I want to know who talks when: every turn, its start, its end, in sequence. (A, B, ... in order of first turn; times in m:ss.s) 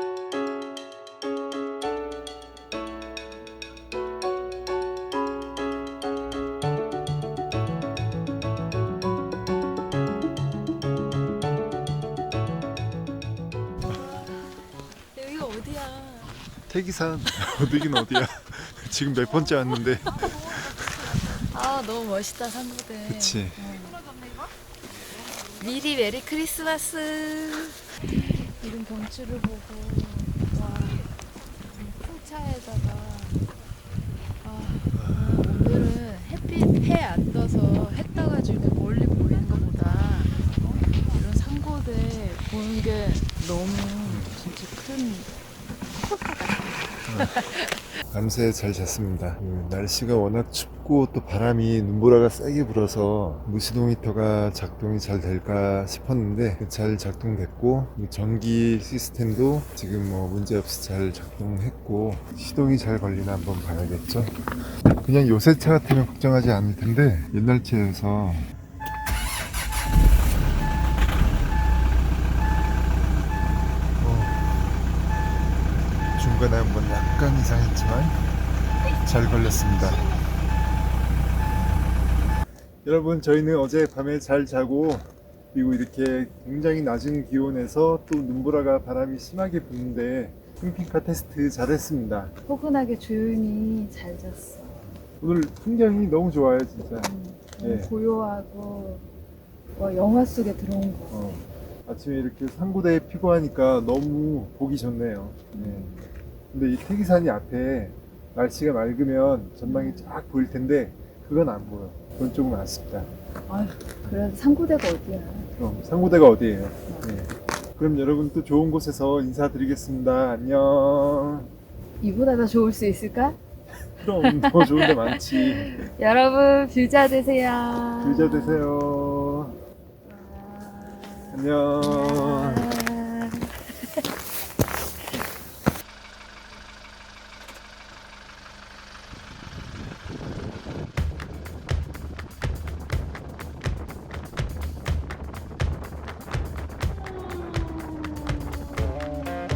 0:15.1-0:16.3 A
0:16.7-0:20.8 B
0:21.2-0:24.0 A
0:23.0-0:23.6 B
0:25.5-0:31.1 A
0:31.7-0:33.4 A
0:34.4-0:40.4 A
0:34.9-0:35.6 B
0:41.1-0:45.3 A
0:44.0-0:44.4 B
0:45.9-0:47.8 A
0:47.1-0:47.4 B
0:48.1-1:08.5 B
1:14.0-1:14.5 B
1:16.1-1:18.2 B
1:19.0-1:20.0 B
1:22.8-1:32.3 B
1:32.4-1:34.8 A
1:35.2-1:37.9 B
1:37.0-1:39.0 A
1:39.8-1:41.4 A
1:41.1-1:53.1 B
1:45.5-1:46.0 A
1:49.6-1:50.1 A
1:53.5-1:55.5 A
1:55.6-2:01.5 B
2:02.0-2:03.4 A
2:04.0-2:05.9 B
2:04.2-2:08.7 A
2:08.0-2:09.6 B
2:10.0-2:13.9 A
2:11.3-2:12.7 B